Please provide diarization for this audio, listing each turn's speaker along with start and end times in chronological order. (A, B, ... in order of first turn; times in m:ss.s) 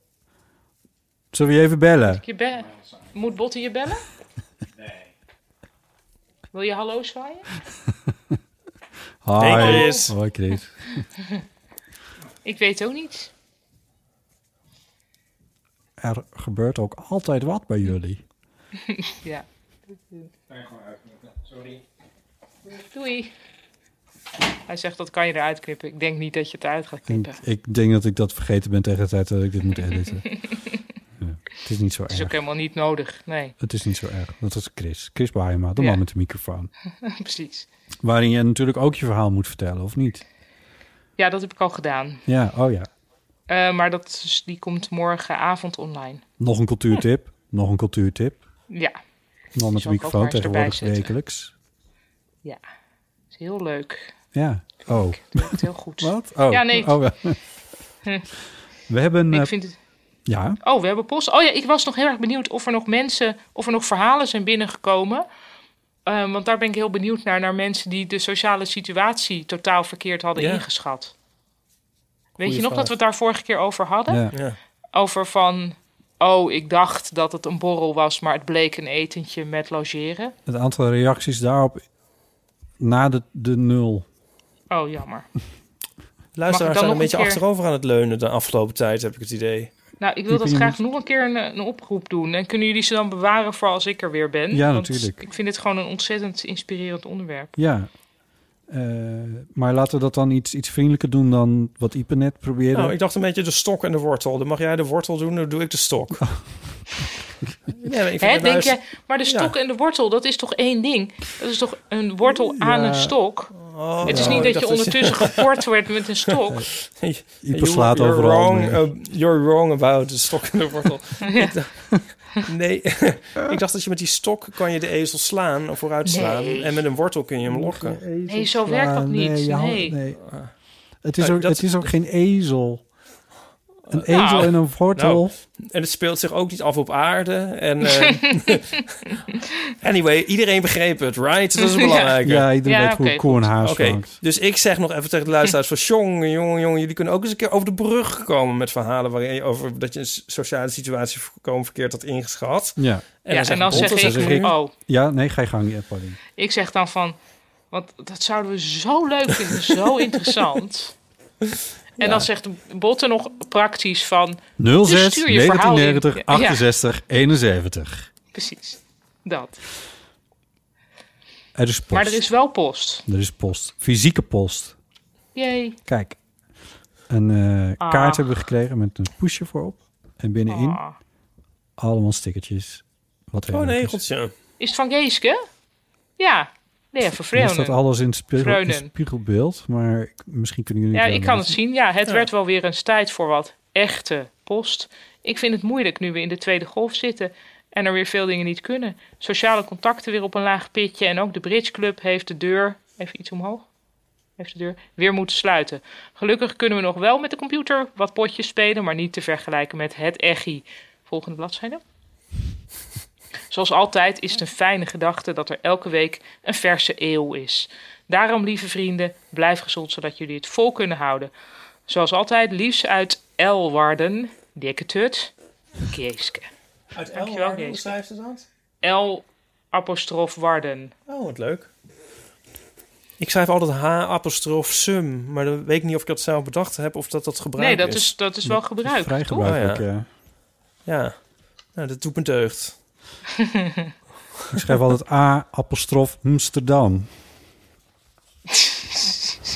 0:01.3-0:02.2 A
0:02.1-0:04.0 B
0:06.5-0:07.5 B
0:09.2-0:11.0 A
0:09.4-0:10.1 C
0:09.5-0:10.1 B
0:12.4-0:13.3 B
0:16.0-0:18.2 A
0:18.8-0:19.4 B
0:22.7-0:23.3 B
0:24.7-0:27.4 B
0:27.1-0:30.4 A
0:31.2-0:32.4 A
0:32.1-0:33.5 B
0:33.6-0:36.7 A
0:35.8-0:36.0 B
0:37.0-0:37.6 B
0:38.0-0:40.2 A
0:41.2-0:42.2 B
0:42.2-0:42.9 A
0:43.5-0:46.2 B
0:46.4-0:48.4 A
0:48.7-0:49.0 B
0:49.5-0:51.5 A
0:49.7-0:51.1 B
0:53.3-0:54.1 B
0:54.3-0:57.4 A
0:54.9-0:57.0 B
0:58.9-0:59.5 A
0:59.3-0:59.8 B
1:00.3-1:00.6 A
1:00.6-1:05.2 B
1:06.0-1:11.1 B
1:10.4-1:10.6 C
1:12.4-1:14.2 B
1:12.4-1:12.9 A
1:14.1-1:14.4 A
1:14.9-1:20.3 B
1:20.4-1:21.8 A
1:22.8-1:24.0 A
1:24.7-1:25.3 B
1:26.3-1:29.7 C
1:26.5-1:27.4 B
1:30.0-1:37.5 B
1:30.3-1:30.8 A
1:34.5-1:35.2 A
1:37.6-1:37.9 A
1:38.7-1:42.9 A
1:42.7-1:46.3 C
1:47.8-1:49.5 C
1:48.2-1:56.6 B
1:52.6-1:53.1 A
1:53.5-1:55.4 C
1:54.0-1:54.5 A
1:56.8-2:08.0 C
1:57.4-1:58.8 A
2:01.2-2:01.5 B
2:06.0-2:06.8 B
2:07.5-2:10.3 A
2:08.3-2:09.9 B
2:10.2-2:10.5 C
2:11.0-2:12.8 A
2:11.2-2:11.9 C
2:13.9-2:15.3 A
2:13.9-2:19.0 C
2:14.1-2:14.5 B
2:19.8-2:22.4 C
2:21.6-2:22.1 B
2:22.2-2:24.2 A
2:22.6-2:23.5 B
2:23.6-2:34.5 C
2:32.8-2:36.2 A
2:33.3-2:34.7 B
2:36.4-2:37.2 B
2:37.7-2:40.9 B
2:42.0-2:46.6 B
2:42.0-2:42.3 A
2:44.6-2:48.1 A
2:48.3-2:49.6 B
2:51.5-2:52.3 A
2:51.9-2:53.0 B
2:53.1-2:54.8 A
2:55.3-2:55.8 B
2:55.8-2:56.2 A
2:57.1-3:00.8 A
2:57.8-2:58.4 B
3:00.5-3:01.0 B
3:01.8-3:04.0 A
3:03.5-3:04.3 C
3:04.6-3:05.4 B
3:06.2-3:07.8 B
3:07.3-3:11.6 A
3:08.4-3:08.9 B
3:10.9-3:23.6 B
3:24.4-3:31.8 B
3:33.5-3:41.3 B
3:41.9-3:45.3 B
3:45.8-3:46.5 B
3:46.9-3:48.4 C
3:47.1-3:47.9 B
3:48.8-3:50.9 B
3:51.1-3:51.7 C
3:53.2-3:58.1 C
3:57.6-3:59.5 B
3:58.4-4:00.1 A
3:59.4-3:59.8 C
4:00.8-4:02.8 C
4:03.5-4:03.9 B
4:04.5-4:07.1 A